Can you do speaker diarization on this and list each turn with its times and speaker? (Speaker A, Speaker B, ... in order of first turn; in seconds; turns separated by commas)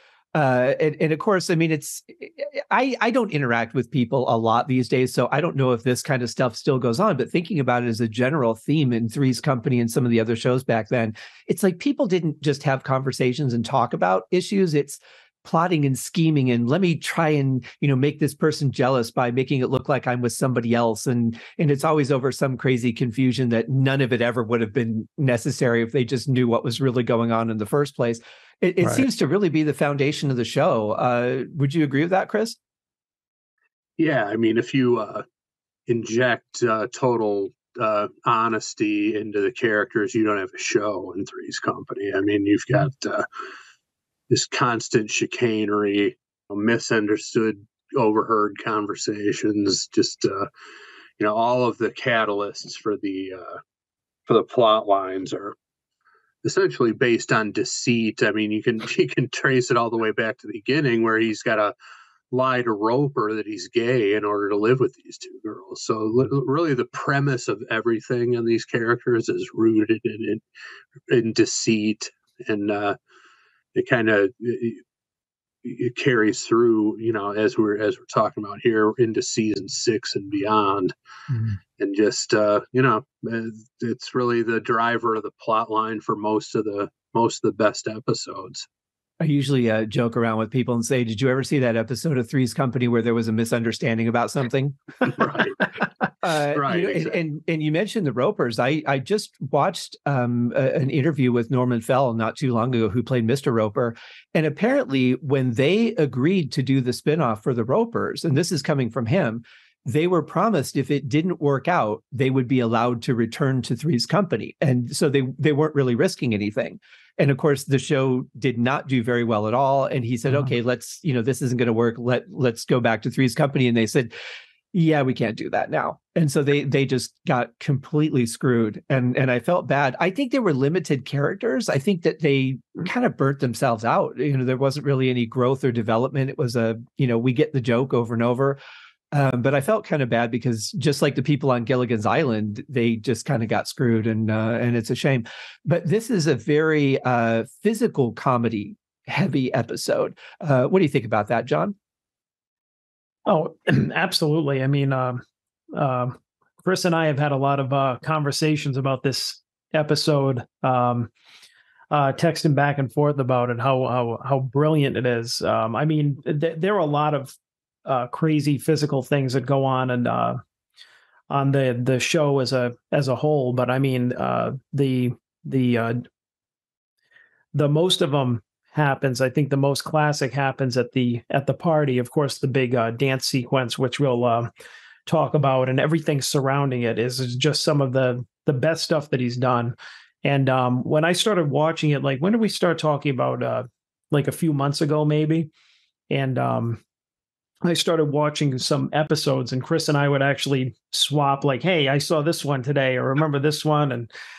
Speaker A: 0.3-32.6, Speaker B: 34.0-35.2, Speaker B: 35.9-43.2, Speaker B: 44.3-50.5, Speaker B: 51.2-53.6, Speaker B: 54.3-55.5, Speaker B: 56.4-61.7, Speaker B: 62.3-70.4, Speaker B: 71.1-73.0, Speaker B: 73.7-74.8, Speaker B: 75.6-80.9, Speaker A: 81.3-81.6, Speaker B: 81.8-88.7, Speaker A: 89.2-95.1, Speaker B: 95.0-95.6, Speaker A: 96.2-124.1, Speaker B: 96.5-97.2, Speaker A: 124.7-138.6, Speaker A: 139.1-151.7, Speaker C: 153.2-161.1, Speaker C: 161.9-167.3, Speaker C: 167.8-170.4, Speaker C: 171.3-176.1, Speaker C: 177.5-184.5, Speaker C: 185.1-195.5, Speaker C: 196.1-196.8, Speaker C: 197.6-204.1